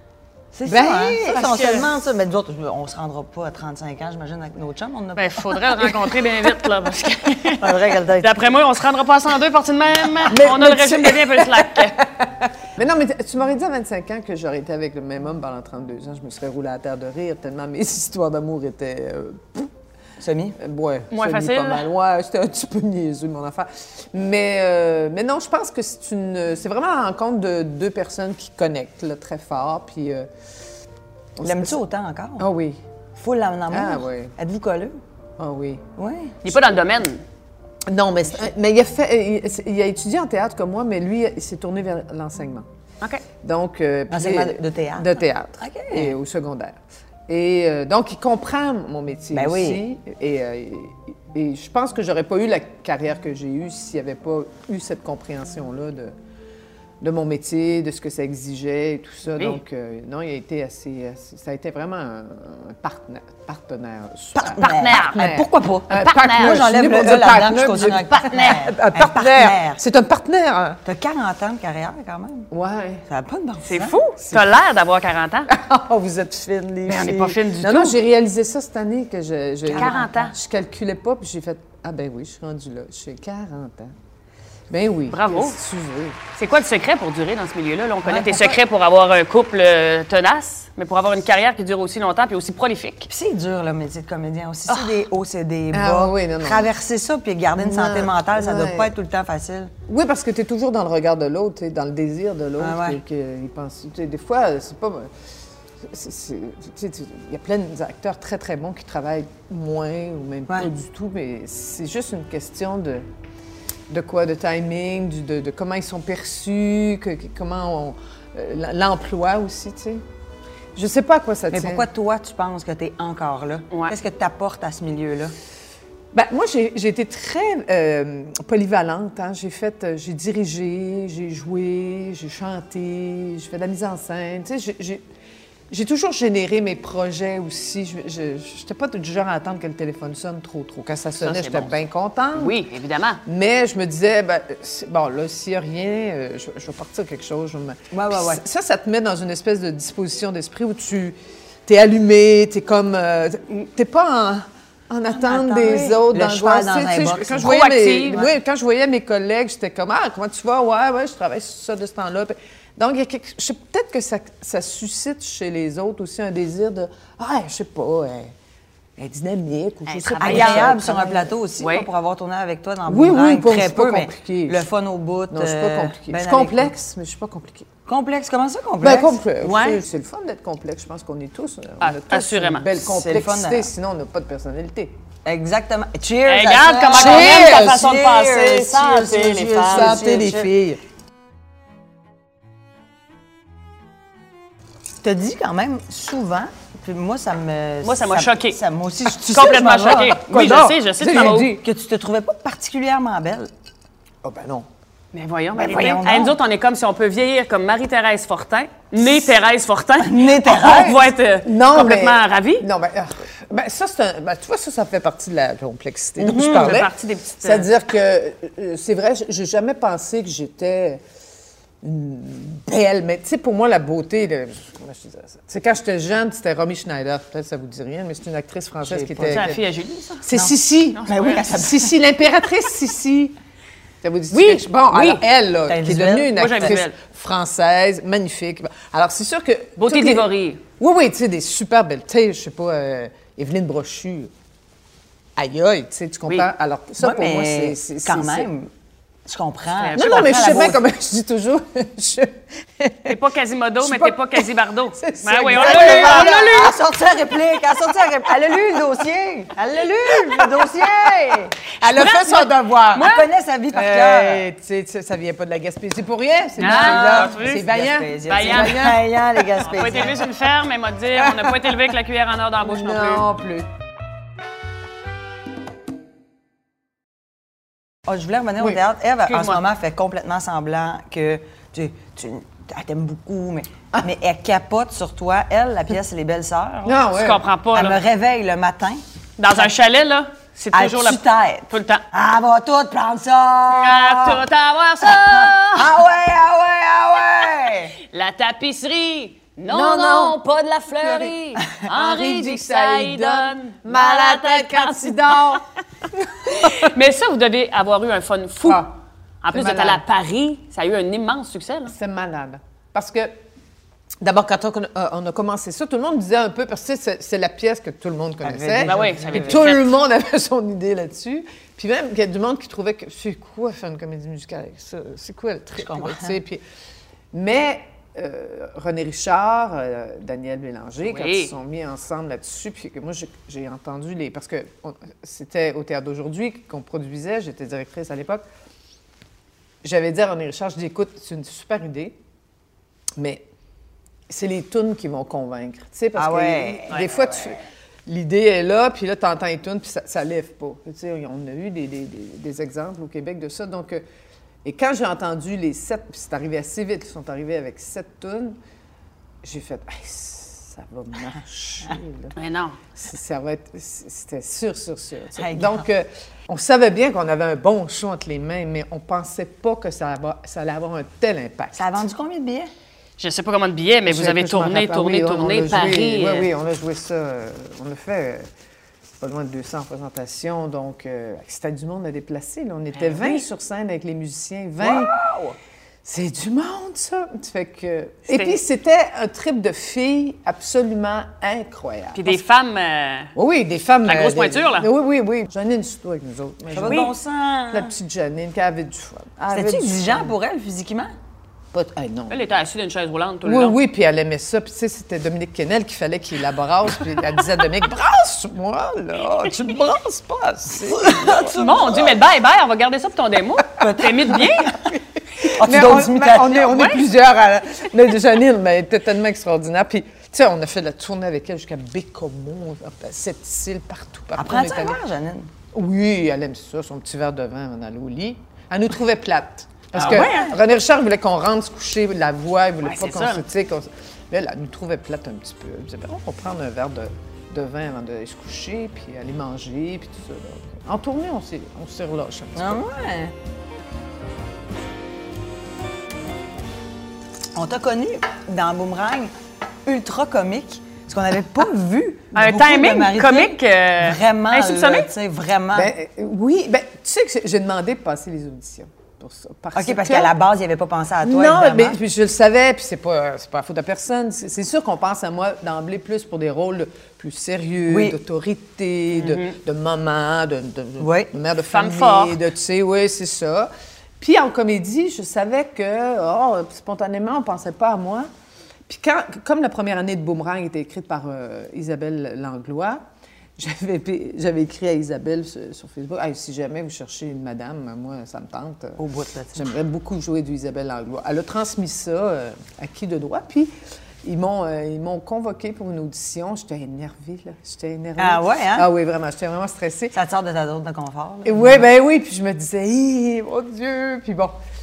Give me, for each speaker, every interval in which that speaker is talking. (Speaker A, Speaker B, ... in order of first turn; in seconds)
Speaker A: 0.5-5.9, 7.6-8.4, 20.2-20.6, 31.4-32.5, 33.2-35.0, 36.0-36.4, 44.1-46.2, 49.3-49.8, 64.3-69.8, 70.8-72.5, 73.1-74.0, 79.7-80.1, 88.0-88.6, 93.1-99.7, 102.6-103.0, 121.5-125.3, 147.9-148.4, 155.1-158.3, 170.2-176.7, 177.8-179.2, 182.8-183.7, 185.2-190.5, 195.0-200.2, 201.1-203.5, 205.5-206.4, 210.0-211.0, 216.2-216.8, 230.3-232.0, 235.7-236.7, 247.0-248.7, 249.2-250.8, 255.5-261.5, 262.9-264.4, 266.6-270.2, 278.1-287.0, 287.7-289.7, 290.7-294.4, 295.1-297.9, 318.4-319.7, 325.7-326.4, 346.1-347.4, 365.4-365.9, 371.7-372.7, 384.8-385.6, 396.7-397.9, 399.5-401.1, 410.8-412.1, 413.8-416.8, 424.3-425.5, 430.0-430.5, 442.6-443.3, 447.5-449.3, 449.9-455.9, 459.7-462.0, 467.9-468.2, 471.0-471.3, 489.0-489.7, 498.2-498.9, 500.1-501.9
Speaker B: 0.6-1.7, 6.3-6.7, 10.3-19.7, 20.6-30.3, 31.4-31.8, 32.4-32.8, 33.7-34.3, 35.4-35.8, 37.9-42.6, 43.4-56.1, 57.0-70.8, 72.5-73.0, 74.2-74.5, 75.5-83.9, 84.7-86.2, 95.7-96.7, 97.6-98.9, 99.9-105.1, 105.8-113.0, 113.9-120.0, 120.8-121.9, 126.1-135.0, 135.7-142.6, 143.2-168.3, 169.0-171.3, 172.9-174.7, 175.3-177.7, 178.8-184.9, 186.9-187.9, 189.3-190.8, 199.9-201.6, 204.2-204.7, 209.0-209.3, 210.6-221.0, 221.8-229.6, 230.2-233.3, 234.0-244.3, 245.3-248.5, 249.9-253.2, 253.8-256.8, 257.5-258.8, 260.0-261.1, 261.8-263.1, 263.7-270.3, 271.1-271.9, 272.6-273.7, 286.8-287.4, 299.7-300.4, 300.9-306.9, 308.6-308.9, 309.5-310.0, 311.9-313.3, 314.2-326.6, 327.3-338.4, 339.8-342.1, 343.2-343.4, 344.3-354.0, 354.6-358.6, 359.4-362.3, 362.9-372.1, 374.1-378.5, 379.2-385.1, 386.0-392.4, 393.4-397.1, 397.7-400.4, 401.7-402.5, 403.4-411.9, 415.4-425.0, 425.7-442.8, 455.7-460.3, 461.2-478.3, 478.9-483.0, 483.6-489.0, 489.5-493.7, 494.2-500.1, 501.4-504.6
Speaker C: 1.2-1.9, 5.2-12.0, 21.1-21.9, 36.4-37.2, 59.3-59.6, 64.6-65.3, 65.9-66.6, 68.1-68.7, 73.7-75.5, 76.8-78.0, 79.8-80.3, 85.1-85.6, 86.3-93.1, 94.7-95.0, 141.2-141.8, 142.3-143.2, 157.4-158.2, 169.8-170.9, 171.6-171.9, 179.4-179.8, 181.8-182.7, 186.2-190.0, 197.8-198.6, 199.2-201.6, 205.1-212.7, 216.4-217.7, 228.8-230.2, 230.9-231.4, 234.3-235.2, 236.3-237.0, 239.8-240.6, 246.2-246.5, 249.8-250.7, 253.1-256.7, 261.8-263.3, 266.6-267.6, 268.3-269.0, 269.6-273.3, 279.2-279.6, 287.1-288.0, 289.4-292.0, 293.7-296.0, 298.1-305.6, 306.5-308.9, 309.4-311.9, 318.8-319.9, 331.0-331.5, 362.3-362.8, 373.2-376.5, 382.9-383.4, 388.3-388.6, 392.1-393.3, 394.0-394.9, 396.8-397.1, 402.3-403.8, 411.5-414.8, 416.6-417.0, 429.9-430.5, 432.8-433.4, 452.3-455.1, 469.1-469.5, 471.6-472.4